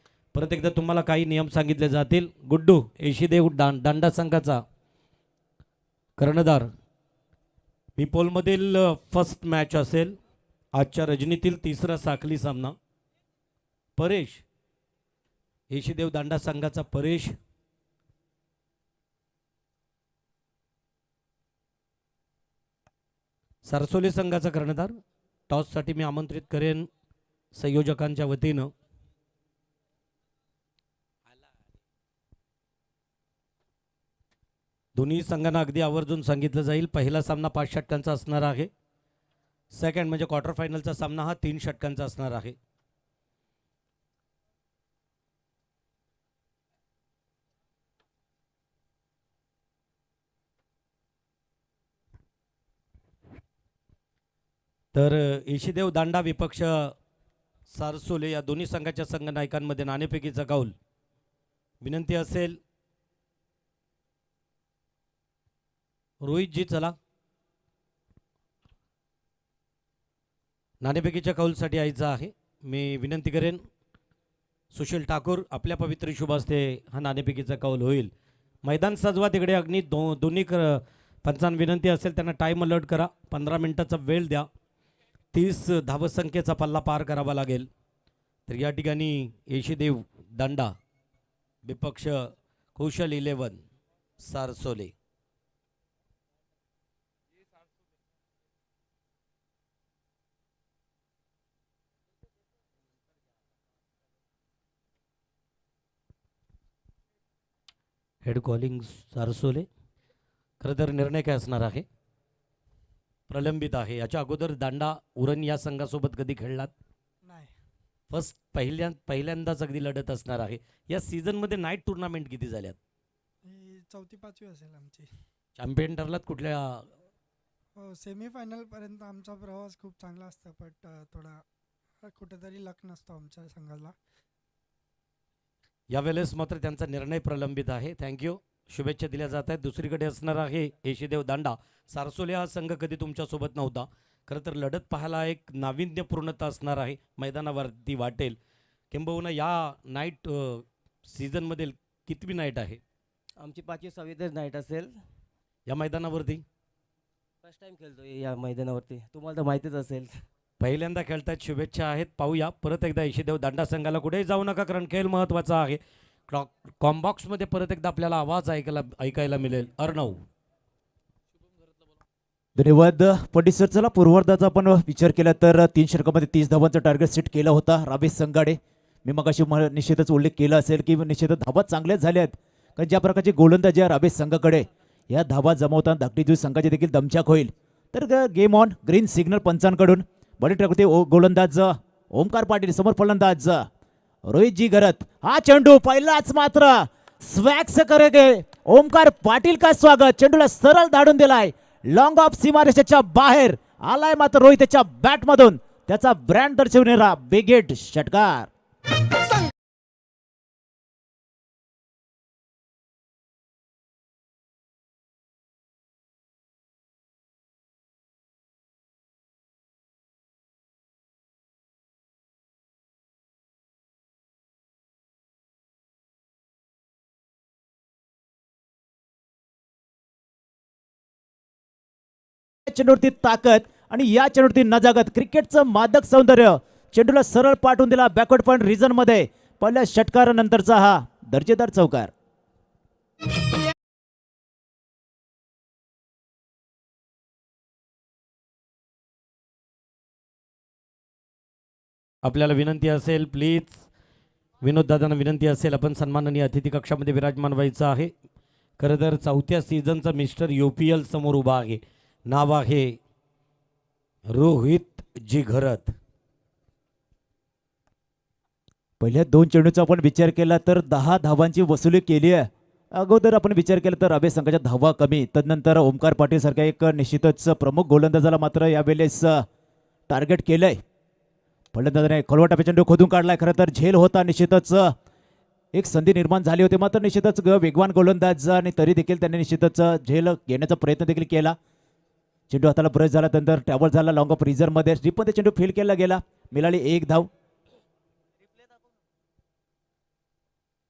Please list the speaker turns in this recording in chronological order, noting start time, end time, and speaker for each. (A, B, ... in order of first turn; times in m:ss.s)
0:00.3-0:04.6 A
0:06.2-0:06.7 A
0:08.0-0:10.2 A
0:10.8-0:12.8 A
0:14.0-0:14.4 A
0:15.7-0:17.4 A
0:23.6-0:25.0 A
0:25.5-0:26.9 A
0:27.5-0:28.7 A
0:35.0-0:38.7 A
0:39.7-0:42.6 A
0:54.9-0:56.9 A
0:57.7-1:00.7 A
1:01.8-1:02.6 A
1:06.2-1:07.0 A
1:10.8-1:13.6 A
1:14.7-1:18.1 A
1:18.6-1:24.5 A
1:25.3-1:27.7 A
1:28.5-1:30.8 A
1:31.6-1:33.6 A
1:34.2-1:34.9 A
1:48.2-1:49.7 A
1:50.6-1:51.9 A
1:53.3-1:56.7 A
1:57.3-1:57.5 B
1:58.1-2:02.8 A
2:03.4-2:05.1 B
2:05.6-2:06.9 A
2:07.8-2:11.4 B
2:12.0-2:13.9 B
2:15.9-2:28.4 A
2:28.9-2:32.8 A
2:33.4-2:35.0 C
2:35.7-2:36.4 A
2:37.4-2:40.1 C
2:40.6-2:50.2 A
2:52.6-3:13.7 D
3:14.3-3:28.5 D
3:52.7-4:02.1 D
4:12.2-4:13.8 A
4:14.6-4:18.1 A
4:18.8-4:23.0 A
4:24.3-4:26.0 A
4:29.0-4:39.5 D
4:40.1-4:40.8 D
4:41.7-4:44.9 D
4:45.7-4:51.6 D
4:52.5-4:57.3 D